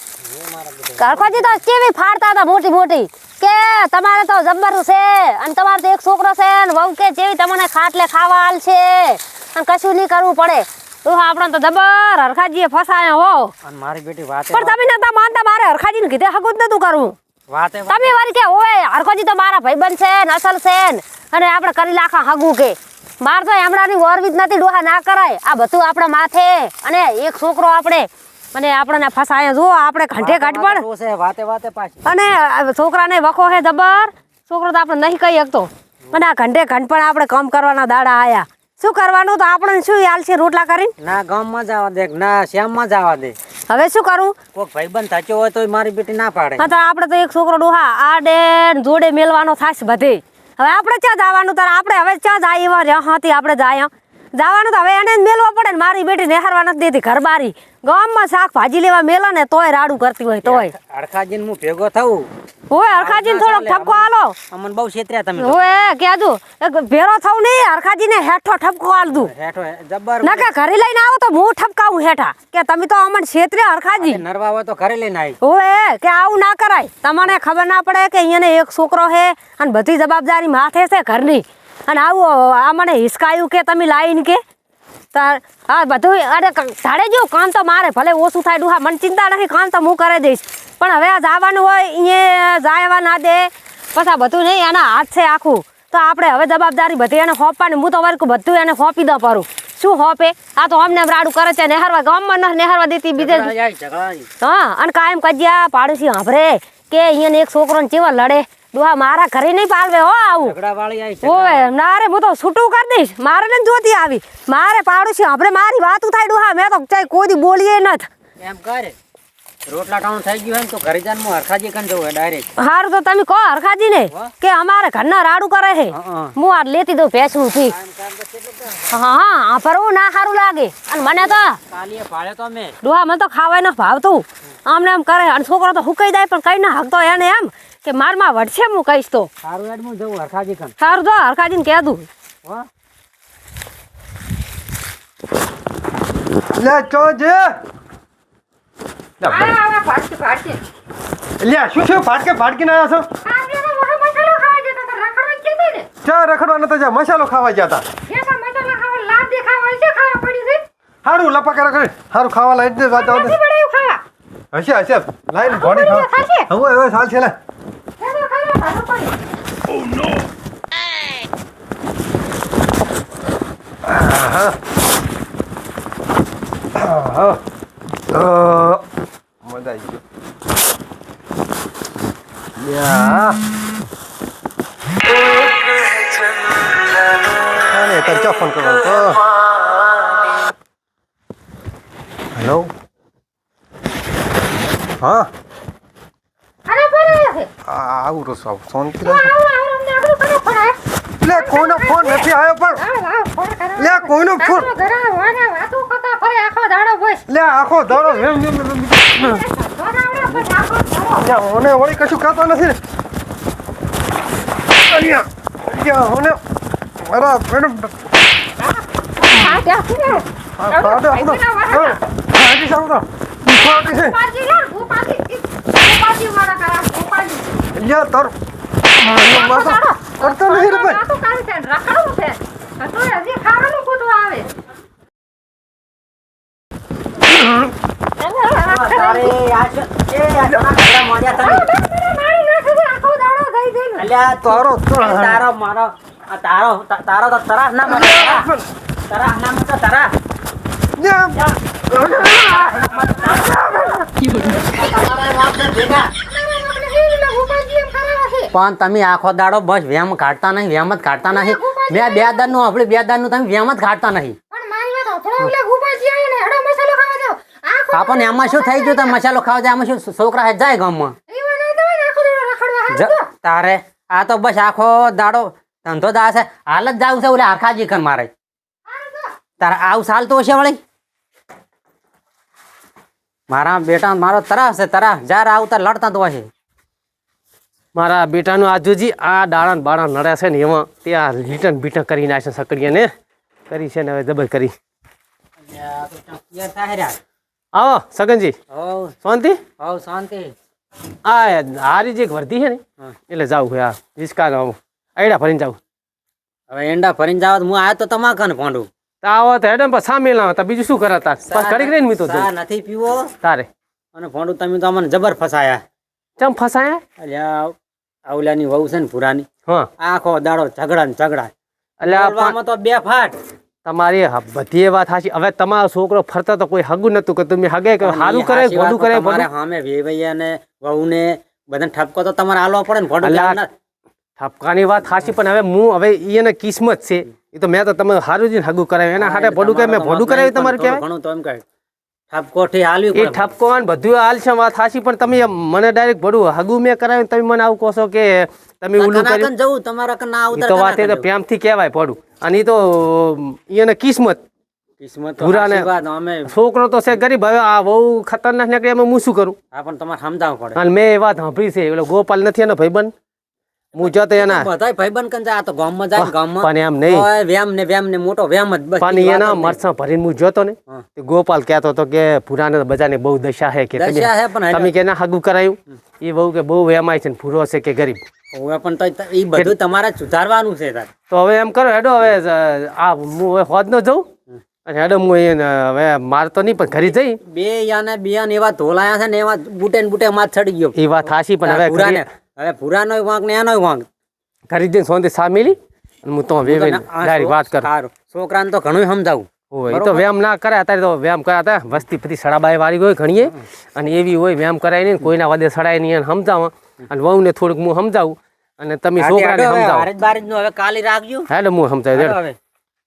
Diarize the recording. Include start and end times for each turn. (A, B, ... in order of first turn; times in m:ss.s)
0:00.2-0:01.6 A
0:01.0-0:13.5 B
0:13.6-0:14.8 A
0:14.5-0:17.1 B
0:17.5-0:18.1 A
0:17.9-0:30.8 B
0:30.1-0:32.0 A
0:32.0-0:40.9 B
0:41.0-0:43.4 A
0:43.7-0:44.4 B
0:44.5-0:46.6 A
0:46.6-1:00.7 B
1:00.4-1:02.3 A
1:02.7-1:04.3 B
1:02.9-1:05.6 A
1:05.4-1:09.3 B
1:09.1-1:10.5 A
1:10.2-1:14.2 B
1:14.0-1:15.4 A
1:15.4-1:24.4 B
1:25.1-1:43.5 B
1:43.2-1:44.3 A
1:44.4-1:50.6 B
1:50.4-1:51.7 A
1:51.2-1:58.1 B
1:58.4-1:59.0 A
1:59.7-2:02.4 A
2:02.6-2:07.7 B
2:05.9-2:06.3 A
2:07.5-2:09.0 A
2:08.9-2:11.6 B
2:11.0-2:12.8 A
2:12.8-2:19.3 B
2:19.4-2:20.7 A
2:20.8-2:22.1 B
2:26.6-2:27.6 C
2:29.2-2:29.5 C
2:29.2-2:30.6 D
2:31.4-2:33.1 C
2:33.2-2:35.9 D
2:36.0-2:37.8 C
2:38.1-2:40.6 D
2:41.0-2:43.4 C
2:42.9-2:44.0 D
2:44.5-2:47.3 C
2:45.4-2:46.5 D
2:48.0-2:49.2 D
2:53.8-2:54.6 C
2:56.7-2:57.4 C
2:58.1-2:58.8 C
2:59.4-3:00.0 C
3:02.6-3:03.4 C
3:07.7-3:09.2 C
3:12.4-3:12.7 C
3:15.0-3:15.3 C
3:16.6-3:17.5 D
3:17.6-3:19.3 C
3:19.0-3:27.2 D
3:21.2-3:22.8 C
3:23.8-3:24.7 C
3:27.3-3:29.4 C
3:27.9-3:28.4 D
3:29.1-3:31.3 D
3:31.2-3:32.8 C
3:34.9-3:36.4 C
3:37.0-3:38.1 C
3:39.2-3:42.0 D
3:40.6-3:44.2 C
3:43.5-3:47.5 D
3:47.7-3:48.3 C
3:49.0-3:51.0 C
3:49.1-3:54.5 D
3:58.3-3:59.3 D
3:58.6-4:01.6 A
4:01.4-4:04.1 D
4:04.0-4:08.5 A
4:04.4-4:05.4 C
4:07.9-4:08.7 C
4:09.1-4:10.1 A
4:11.0-4:14.0 C
4:13.0-4:13.3 A
4:14.3-4:16.1 A
4:16.2-4:18.5 D
4:18.5-4:24.4 A
4:21.3-4:22.6 D
4:24.5-4:29.2 D
4:27.9-4:31.2 A
4:31.3-4:33.3 D
4:32.9-4:38.3 A
4:38.9-4:39.3 D
4:39.6-4:40.8 A
4:43.5-4:46.5 A
4:47.9-4:53.1 E
4:53.7-4:54.7 E
4:55.6-4:57.2 A
4:57.7-4:58.5 E
4:58.7-4:59.1 A
4:59.2-4:59.6 E
4:59.8-5:00.5 A
5:01.2-5:05.8 E
5:06.7-5:08.9 A
5:09.2-5:12.5 E
5:11.5-5:13.3 A
5:13.4-5:13.7 E
5:14.2-5:15.8 A
5:16.4-5:17.0 E
5:17.2-5:17.7 A
5:18.2-5:19.5 A
5:20.0-5:21.5 A
5:22.0-5:22.6 E
5:22.0-5:23.4 A
5:23.8-5:29.5 E
5:28.0-5:33.7 A
5:33.2-5:33.6 E
5:34.4-5:41.0 E
5:39.2-5:41.6 A
5:42.3-5:43.5 A
5:43.1-5:49.5 E
5:49.0-5:51.3 A
5:50.5-5:54.4 E
5:55.0-5:56.5 A
5:55.4-5:55.9 E
5:56.5-5:59.6 E
5:59.7-6:00.8 A
6:00.7-6:03.1 E
6:04.0-6:04.7 E
6:04.0-6:09.8 A
6:06.1-6:07.3 E
6:09.0-6:18.2 E
6:13.9-6:14.9 A
6:18.5-6:21.1 A
6:21.3-6:24.3 E
6:24.8-6:27.4 E
6:27.1-6:34.0 A
6:30.9-6:32.2 E
6:34.7-6:37.9 E
6:36.6-6:40.2 A
6:39.7-6:50.1 E
6:49.2-6:51.5 A
6:51.5-6:52.4 E
6:52.1-6:52.6 A